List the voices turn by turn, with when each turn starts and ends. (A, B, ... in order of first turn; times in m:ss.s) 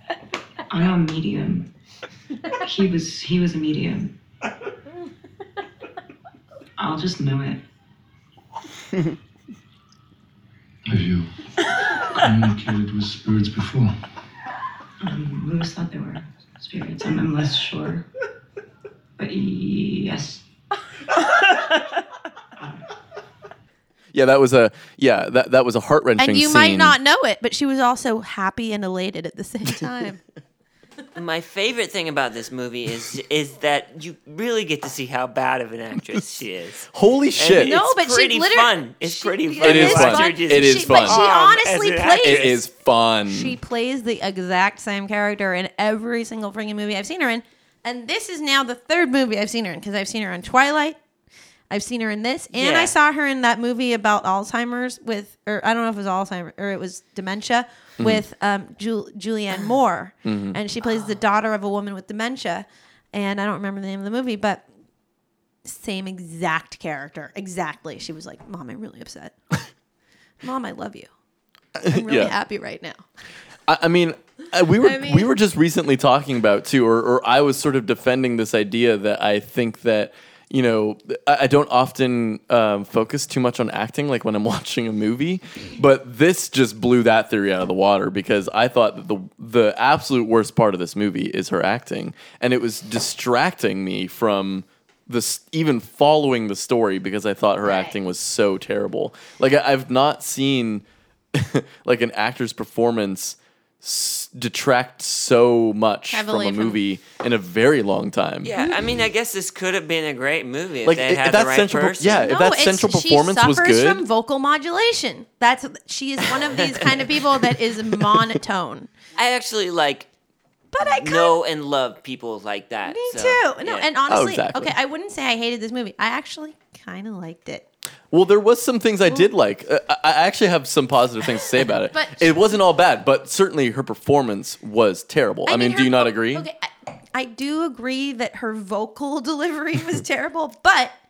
0:00.7-0:01.7 A
0:02.5-0:04.1 A
0:06.8-0:07.6 A
0:10.9-0:11.3 B
0:12.0-0:14.0 B
0:15.0-0:18.0 A
0:19.2-0:20.4 A
0:22.6-0:22.8 A
0:24.1-0:27.0 C
0:26.2-0:30.2 D
0:31.2-0:42.6 E
0:36.9-0:37.8 C
0:37.6-0:42.6 D
0:39.6-0:41.2 C
0:42.2-0:43.6 C
0:43.3-0:51.0 D
0:51.7-1:04.7 D
0:52.5-0:52.9 E
1:00.2-1:00.6 C
1:05.6-1:09.4 D
1:10.4-1:11.1 D
1:11.8-1:12.3 C
1:11.8-1:13.0 D
1:13.7-1:48.6 C
1:14.8-1:15.3 D
1:37.6-1:38.0 D
1:46.1-1:46.8 D
1:48.4-1:52.2 E
1:50.8-1:54.0 C
1:52.1-1:58.9 D
1:59.2-2:00.1 E
2:00.7-2:01.4 D
2:00.8-2:03.9 E
2:02.9-2:07.6 D
2:04.1-2:04.8 C
2:08.1-2:16.5 C
2:11.9-2:12.5 D
2:15.5-2:21.0 D